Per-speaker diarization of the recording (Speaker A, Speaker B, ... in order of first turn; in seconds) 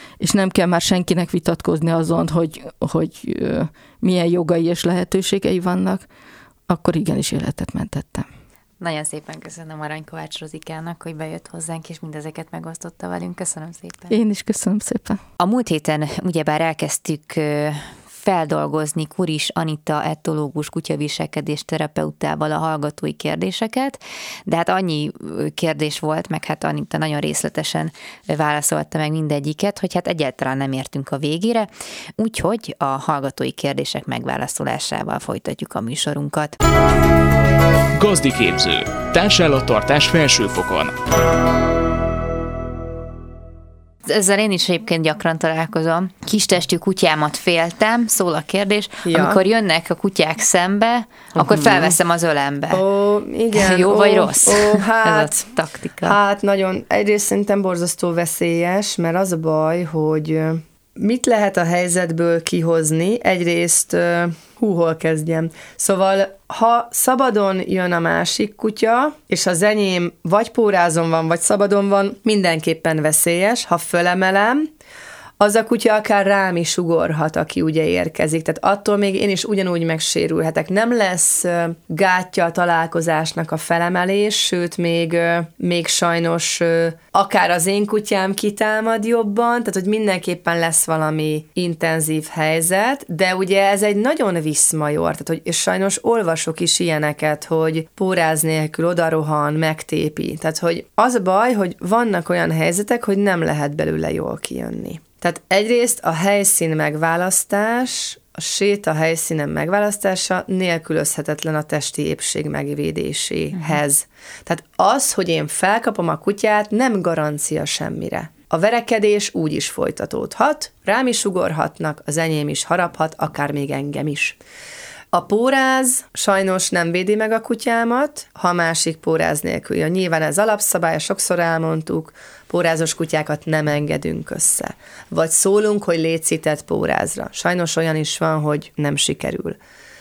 Speaker A: 0.2-6.1, 6.7-8.3, 14.1-15.2
Speaker B: 8.8-14.2, 15.4-36.6, 44.0-52.8, 53.5-56.2
Speaker C: 38.0-41.0
Speaker D: 49.1-49.4, 51.4-52.0, 52.7-55.5, 56.0-74.7, 75.4-124.4, 125.1-139.6